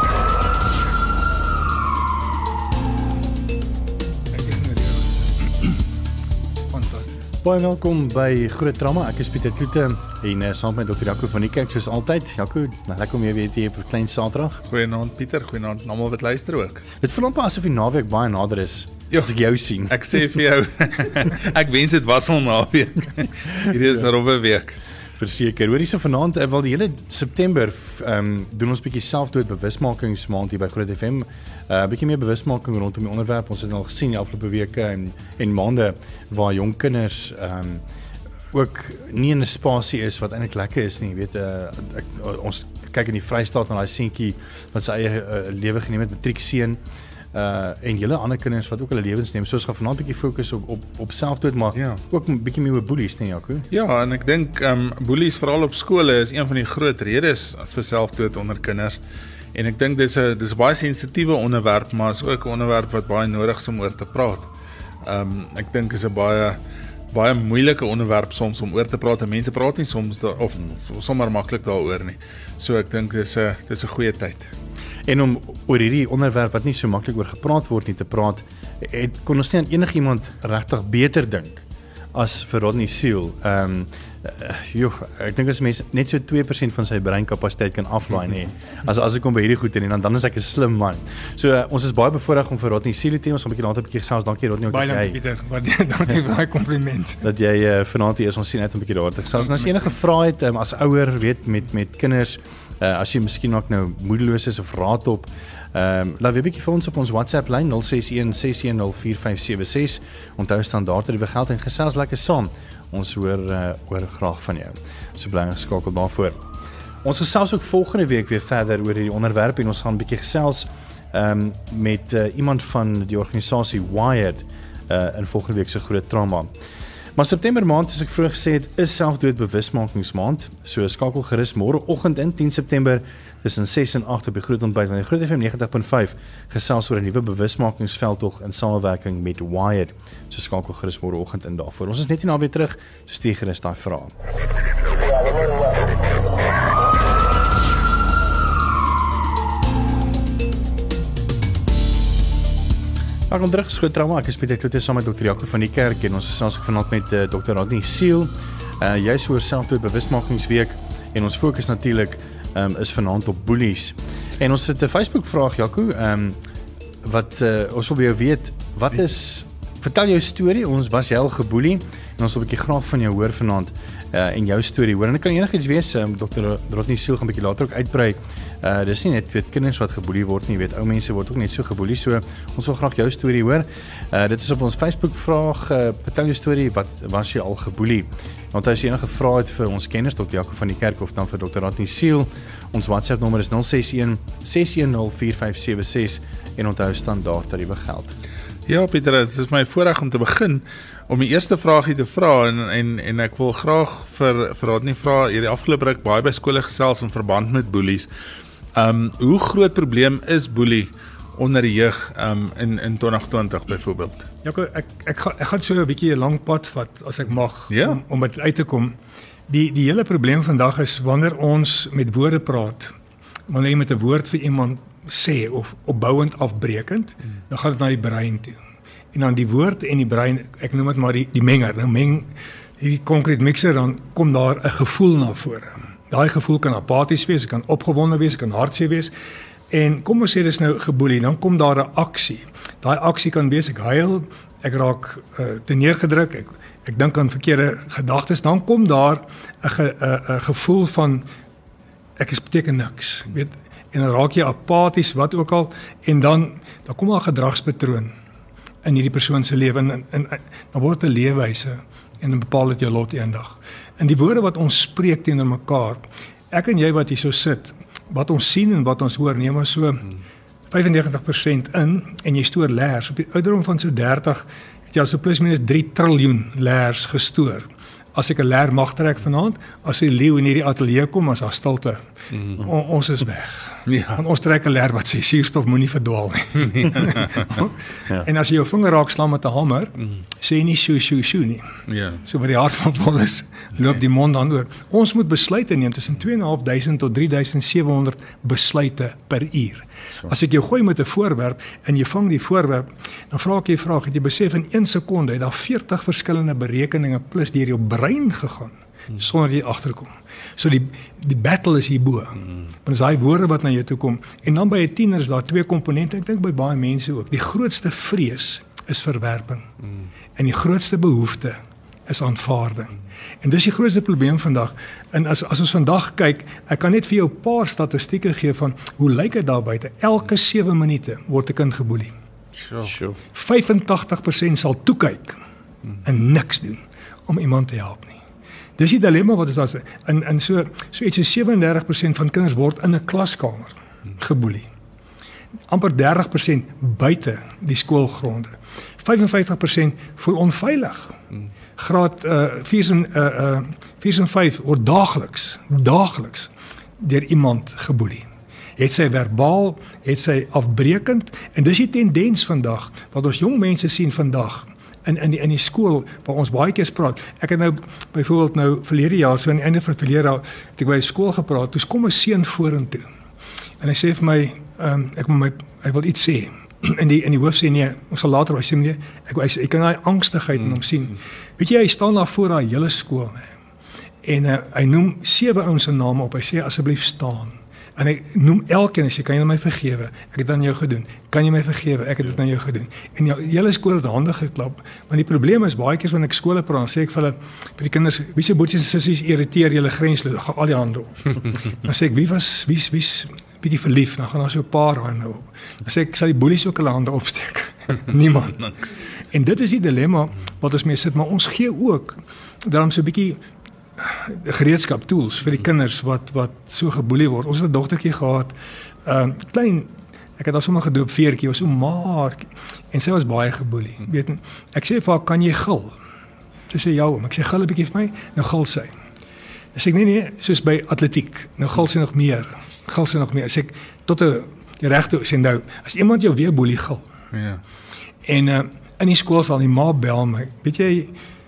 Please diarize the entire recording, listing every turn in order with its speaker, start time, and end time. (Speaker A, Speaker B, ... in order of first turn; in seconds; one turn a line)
Speaker A: 4.3-5.8
Speaker A: 6.7-7.1
Speaker B: 7.4-14.6
Speaker C: 14.7-16.9
Speaker B: 17.0-20.2
Speaker C: 19.9-24.8
Speaker B: 25.2-37.8
Speaker B: 38.5-46.8
Speaker B: 47.3-53.7
Speaker C: 53.7-59.0
Speaker C: 59.5-64.5
Speaker C: 65.0-66.6
Speaker C: 67.1-74.5
Speaker B: 75.1-95.2
Speaker A: 94.7-97.2
Speaker B: 97.2-116.5
Speaker B: 117.0-126.5
Speaker B: 127.2-144.2
Speaker B: 153.3-166.4
Speaker B: 167.0-198.2
Speaker C: 198.7-208.1
Speaker C: 208.8-214.3
Speaker A: 214.4-219.0
Speaker C: 217.7-218.0
Speaker A: 219.5-222.9
Speaker A: 223.5-228.6
Speaker A: 229.1-239.1
Speaker A: 239.7-251.3
Speaker A: 252.2-258.1
Speaker A: 258.8-270.1
Speaker A: 270.7-282.0
Speaker A: 282.5-291.7
Speaker C: 283.9-284.2
Speaker C: 291.9-292.2
Speaker A: 292.2-319.7
Speaker A: 320.4-332.1
Speaker C: 332.6-332.9
Speaker B: 332.8-333.2
Speaker A: 333.3-335.4
Speaker A: 336.1-338.2
Speaker A: 338.8-344.7
Speaker A: 345.7-351.2
Speaker A: 351.8-358.3
Speaker A: 358.8-373.1
Speaker A: 373.8-383.5
Speaker A: 384.2-408.7
Speaker A: 409.3-413.4
Speaker A: 414.0-426.0
Speaker A: 426.7-428.9
Speaker A: 429.8-437.1
Speaker C: 437.3-437.6
Speaker A: 438.3-441.1